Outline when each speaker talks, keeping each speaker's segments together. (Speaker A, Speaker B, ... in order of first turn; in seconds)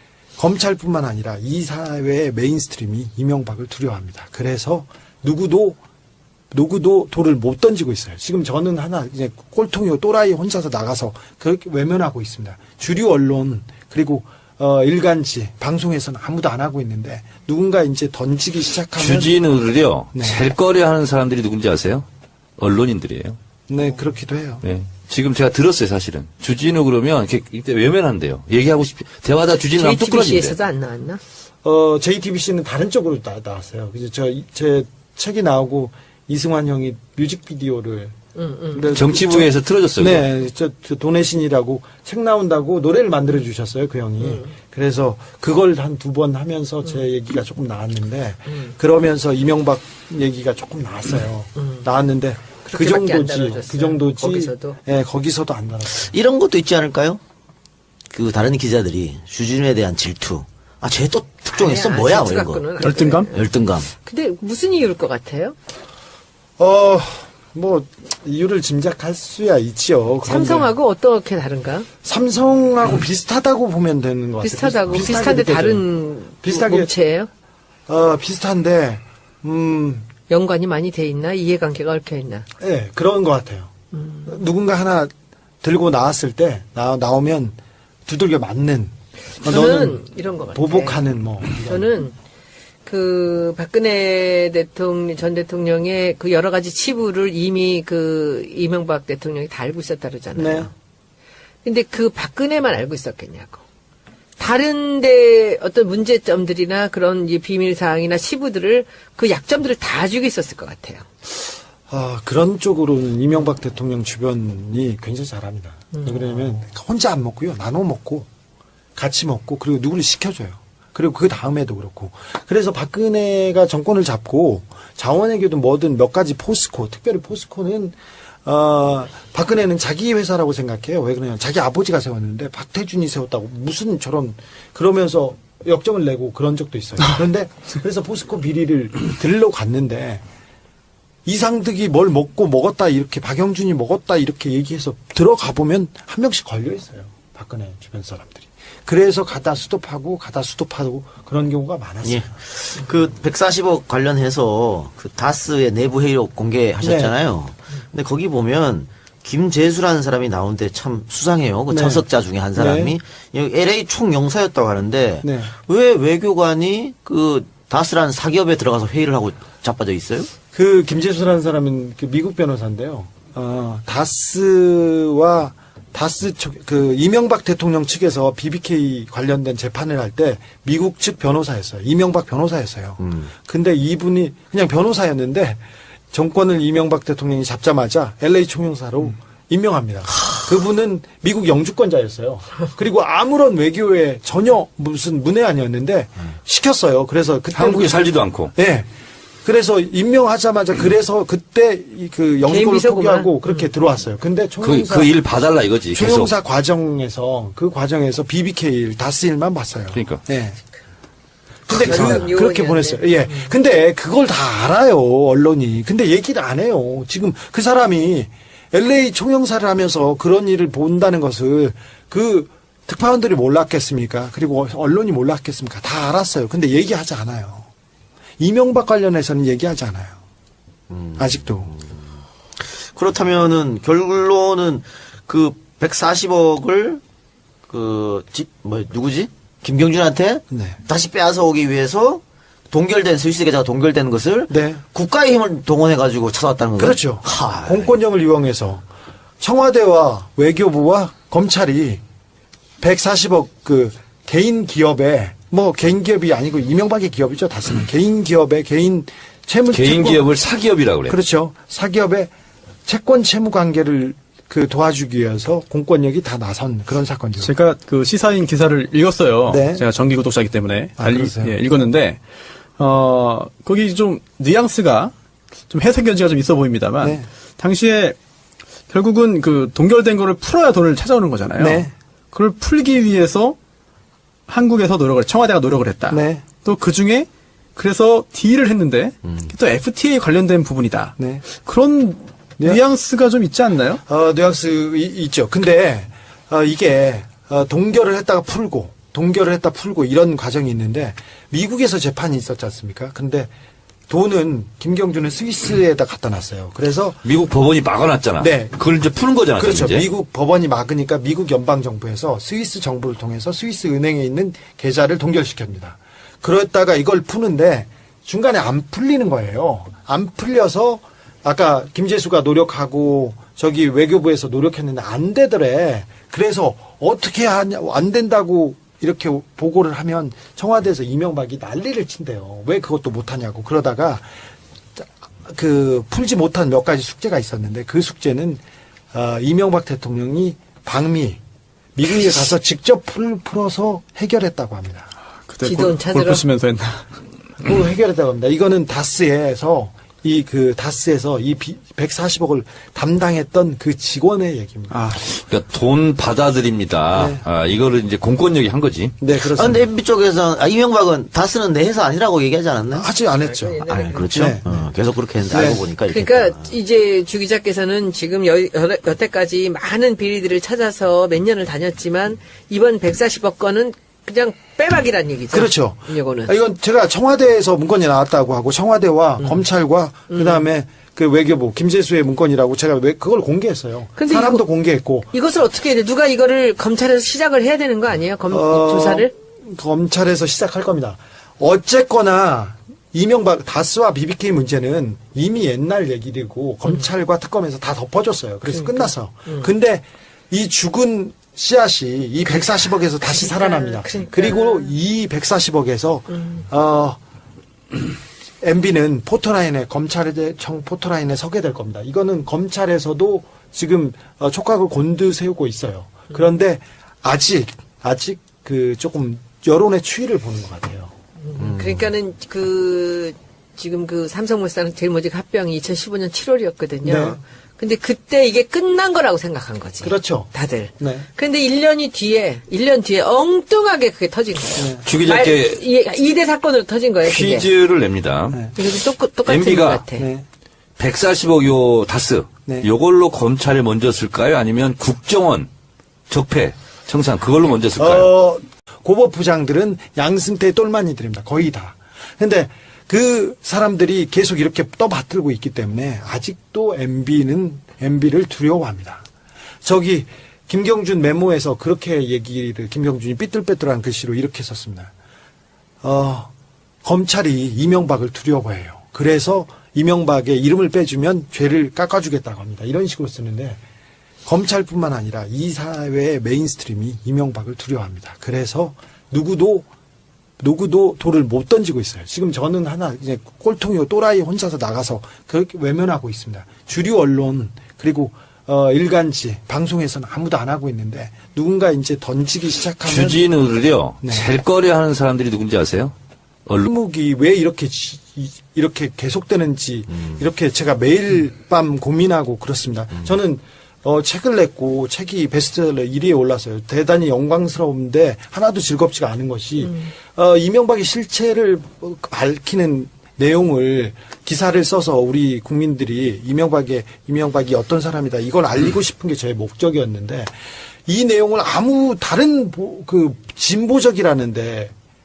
Speaker A: 0.4-5.8, 6.5-19.4, 20.1-20.4, 23.7-24.6, 31.6-38.2, 38.7-56.1, 66.6-70.7, 72.0-76.9, 77.9-80.1, 82.6-83.7, 84.2-91.9, 100.3-100.7, 111.9-118.3, 119.0-140.2, 141.2-152.3, 156.8-157.1, 161.7-163.0, 165.2-165.5, 170.5-198.0, 198.5-198.9, 199.4-205.2, 205.9-210.6, 211.7-227.7, 228.4-230.2, 231.2-231.7, 240.5-240.8, 244.5-244.8, 246.8-248.8, 249.4-252.0, 252.8-260.3, 261.1-262.3, 262.9-267.5, 269.5-269.9, 271.0-271.6, 277.0-277.3, 281.6-281.9, 286.1-286.5, 291.2-291.5, 294.1-303.5, 304.1-307.2, 308.4-308.8, 309.6-334.3, 335.0-338.6, 339.1-341.4, 342.0-345.1, 347.6-355.0, 357.1-357.4, 359.2-359.9, 362.9-364.8, 365.5-365.9, 375.5-385.3, 388.5-407.2, 408.6-421.1, 427.0-427.4, 430.0-431.3, 434.8-435.1, 440.2-440.5, 448.0-459.2, 459.8-465.1, 466.0-466.5, 467.0-473.8, 474.4-479.9, 480.6-493.5, 494.2-494.5, 496.8-520.5, 521.1-524.9
Speaker B: 19.0-22.1, 22.6-23.4, 24.6-30.6, 38.9-40.3, 197.5-198.5, 204.6-206.3, 209.9-210.2, 259.7-261.2, 307.2-310.1, 355.2-359.1, 435.0-435.8, 437.2-440.1, 441.0-445.7, 446.3-448.3, 493.1-496.1
Speaker C: 29.8-31.2, 38.4-39.0, 44.2-44.5, 51.6-51.9, 52.6-54.8, 61.5-65.6, 70.2-71.9, 74.4-77.3, 80.3-82.5, 83.9-84.3, 89.4-91.0, 91.6-92.2, 92.8-100.7, 101.6-103.6, 104.4-111.0, 115.9-116.5, 202.4-203.7, 211.9-213.6, 345.6-346.4, 363.4-364.4, 366.0-376.5, 379.4-379.7, 380.3-380.6, 384.2-384.6, 385.3-389.3, 398.7-399.7, 403.2-405.0, 406.3-406.6, 421.4-437.7, 438.8-440.3
Speaker D: 56.0-57.2, 58.1-62.7, 63.3-63.9, 152.0-170.3, 183.0-183.3, 230.9-231.9, 232.6-237.0, 237.7-247.9, 359.4-363.1, 363.9-366.7, 421.6-422.1
Speaker E: 62.8-63.3, 267.4-272.2, 272.8-275.1, 275.7-278.2, 278.9-283.6, 284.5-294.0, 345.5-347.1, 354.9-355.2